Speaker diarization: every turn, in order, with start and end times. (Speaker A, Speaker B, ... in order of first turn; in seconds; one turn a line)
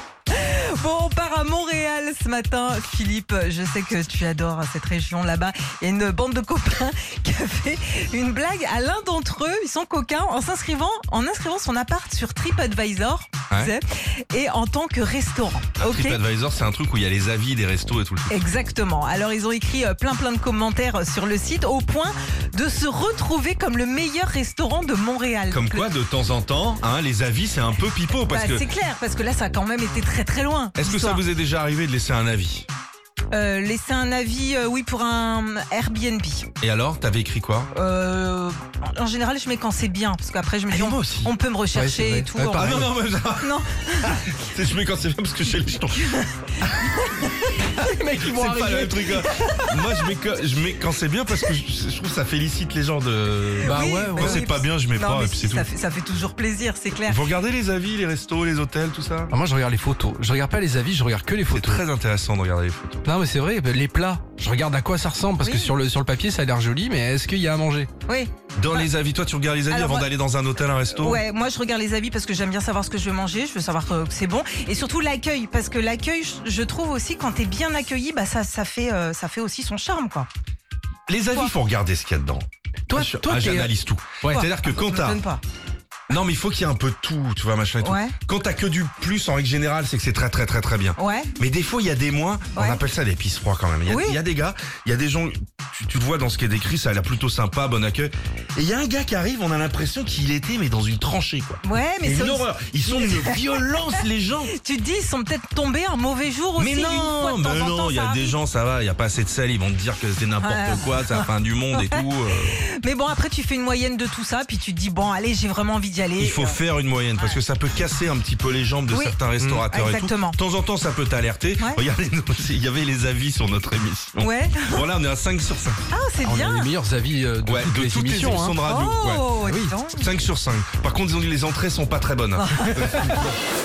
Speaker A: 0.3-16.2
Speaker B: 15.8-18.5
Speaker A: 18.3-25.9
Speaker B: 25.5-28.6
Speaker A: 28.2-31.2
Speaker B: 30.8-32.7
Speaker A: 33.3-36.5
Speaker B: 36.6-37.7
Speaker A: 37.7-44.2
Speaker B: 40.7-41.3
Speaker C: 41.7-42.9
Speaker B: 42.5-47.0
Speaker A: 46.0-47.9
Speaker C: 47.6-49.6
Speaker B: 48.2-55.7
Speaker A: 53.6-57.2
Speaker C: 53.6-54.4
Speaker B: 57.0-59.3
Speaker C: 59.3-61.8
Speaker B: 61.5-63.1
Speaker C: 63.0-67.9
Speaker A: 65.4-65.7
Speaker A: 68.1-68.9
Speaker B: 68.6-71.2
Speaker A: 69.7-70.1
Speaker A: 70.9-80.3
Speaker B: 81.1-85.2
Speaker C: 82.9-84.4
Speaker A: 84.2-85.4
Speaker B: 86.1-104.5
Speaker A: 87.8-88.1
Speaker A: 91.0-91.3
Speaker A: 92.5-92.8
Speaker A: 93.9-94.2
Speaker A: 101.6-108.4
Speaker B: 106.6-112.6
Speaker A: 110.4-112.0
Speaker A: 112.6-116.6
Speaker B: 116.2-125.8
Speaker A: 117.2-117.4
Speaker A: 118.9-119.2
Speaker A: 119.7-120.4
Speaker A: 124.2-124.8
Speaker A: 125.9-126.7
Speaker C: 126.2-128.6
Speaker B: 127.4-129.4
Speaker A: 128.6-130.1
Speaker C: 129.4-129.7
Speaker B: 129.9-133.2
Speaker A: 132.3-133.3